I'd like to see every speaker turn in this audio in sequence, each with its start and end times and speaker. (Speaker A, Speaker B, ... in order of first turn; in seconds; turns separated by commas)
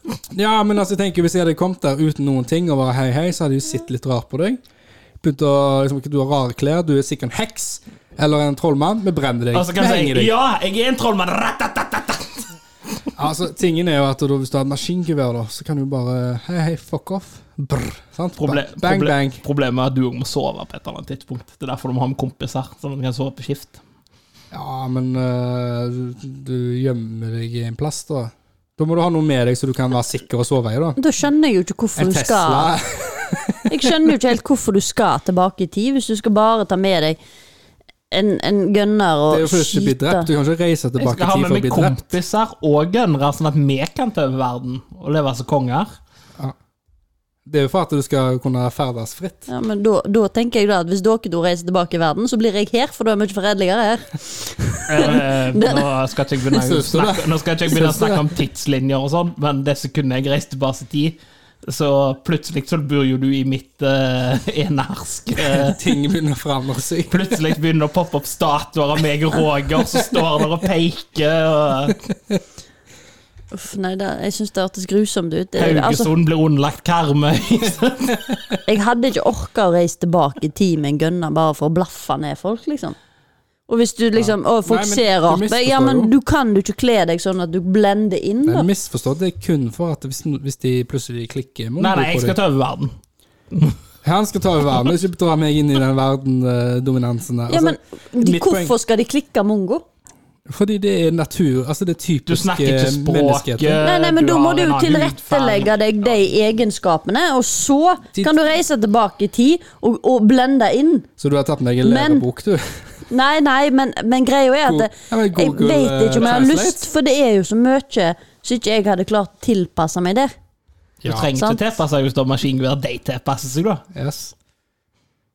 Speaker A: 0.3-4.6, Speaker A: 5.2-10.3, Speaker B: 9.5-12.5, Speaker A: 13.1-19.4, Speaker B: 18.4-23.8, Speaker A: 24.5-31.0, Speaker C: 31.0-32.7, Speaker A: 31.9-33.9, Speaker C: 33.7-37.2, Speaker C: 38.1-40.3, Speaker A: 39.3-42.0, Speaker B: 41.0-45.9, Speaker A: 47.5-49.5, Speaker C: 49.5-55.9, Speaker B: 54.9-65.8, Speaker A: 56.5-58.4, Speaker A: 65.3-67.4, Speaker B: 67.1-72.0, Speaker A: 72.1-72.4, Speaker C: 73.5-76.1, Speaker B: 75.6-78.3, Speaker C: 78.7-83.0, Speaker C: 83.7-88.7, Speaker A: 84.1-86.1, Speaker A: 88.5-92.4, Speaker B: 91.8-92.9, Speaker B: 93.5-93.8, Speaker A: 94.0-98.7, Speaker C: 97.5-99.8, Speaker A: 100.5-103.8, Speaker B: 102.2-105.8, Speaker C: 103.8-111.1, Speaker A: 111.2-112.9, Speaker C: 111.8-112.2, Speaker C: 113.1-120.3, Speaker A: 114.6-116.8, Speaker B: 116.2-116.5, Speaker B: 121.0-123.8, Speaker A: 121.0-121.3, Speaker C: 121.3-121.6, Speaker A: 123.9-124.3